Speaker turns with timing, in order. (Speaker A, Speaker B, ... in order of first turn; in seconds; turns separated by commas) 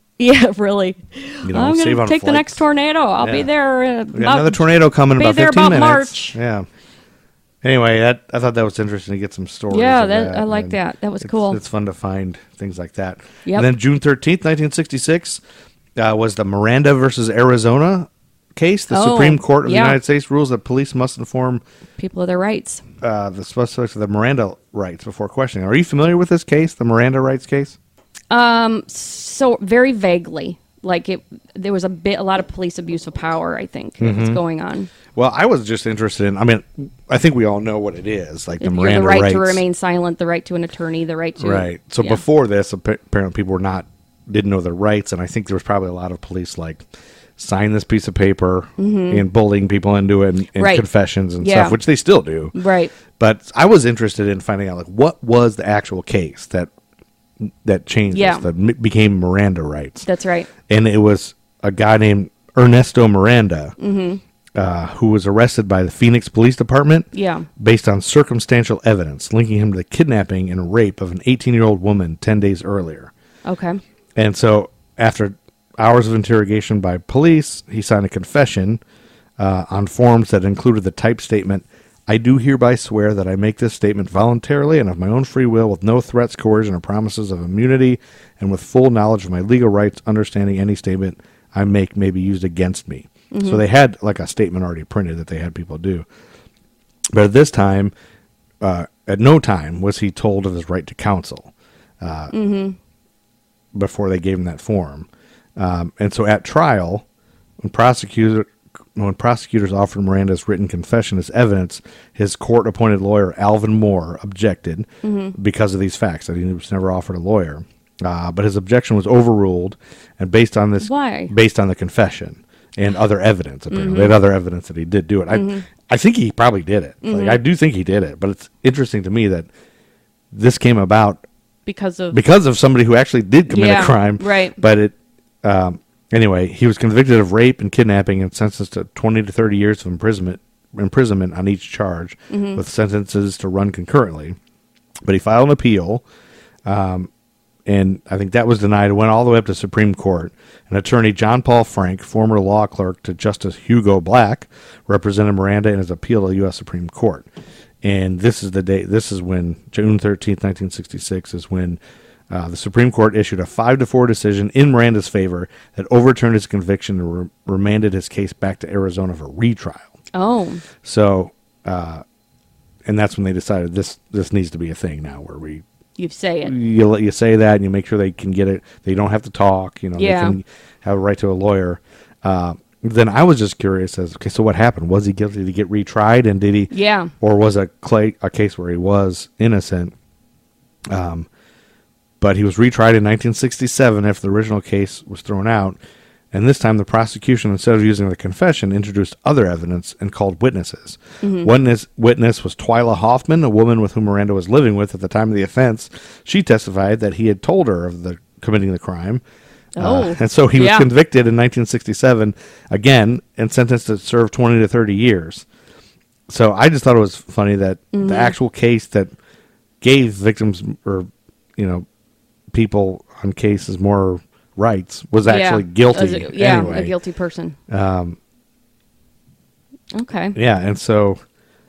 Speaker A: 0.2-4.6, Speaker B: 1.4-2.6, Speaker B: 3.2-3.5, Speaker B: 4.1-6.7, Speaker A: 5.2-6.4, Speaker B: 7.6-15.4, Speaker A: 9.7-11.6, Speaker B: 16.0-21.6, Speaker A: 18.9-20.0, Speaker A: 22.0-22.8, Speaker B: 23.0-27.8, Speaker A: 28.3-34.9, Speaker B: 34.0-34.4, Speaker B: 35.1-39.6, Speaker A: 38.6-42.2, Speaker B: 41.4-52.5, Speaker A: 48.8-49.2, Speaker A: 50.6-50.9, Speaker A: 51.4-51.8, Speaker A: 52.5-52.9, Speaker B: 53.1-56.7, Speaker B: 57.4-60.1, Speaker A: 58.1-58.5, Speaker A: 60.0-60.5, Speaker B: 60.7-63.8, Speaker A: 63.8-64.2, Speaker B: 64.5-73.1, Speaker A: 67.1-67.5, Speaker A: 73.5-73.8, Speaker B: 74.2-78.8, Speaker B: 79.4-96.1, Speaker A: 93.3-93.6, Speaker B: 97.1-97.9, Speaker B: 98.6-102.3, Speaker A: 102.3-102.8, Speaker B: 103.7-107.0, Speaker B: 107.6-129.5, Speaker A: 115.0-115.4, Speaker A: 120.8-121.3, Speaker A: 123.7-124.2, Speaker A: 125.3-125.7, Speaker A: 127.0-127.4, Speaker B: 130.3-131.2, Speaker A: 131.7-132.2, Speaker B: 132.1-144.4, Speaker A: 133.5-134.6, Speaker A: 142.3-142.6, Speaker B: 145.1-146.0, Speaker B: 146.7-147.1, Speaker B: 147.7-157.3, Speaker B: 157.8-169.9, Speaker A: 170.1-170.6, Speaker B: 170.8-172.0, Speaker B: 172.8-175.6, Speaker A: 176.0-176.6, Speaker B: 176.4-189.9, Speaker A: 180.0-180.4, Speaker A: 186.7-187.1, Speaker B: 190.9-191.3, Speaker B: 192.2-195.8, Speaker B: 196.3-209.2, Speaker A: 201.2-201.5, Speaker A: 209.8-210.9, Speaker B: 209.8-215.5, Speaker B: 216.3-219.1, Speaker A: 217.9-218.3, Speaker B: 219.8-221.8, Speaker B: 222.5-226.9, Speaker A: 225.2-227.6, Speaker B: 227.7-228.2, Speaker A: 229.9-230.4, Speaker B: 230.3-231.2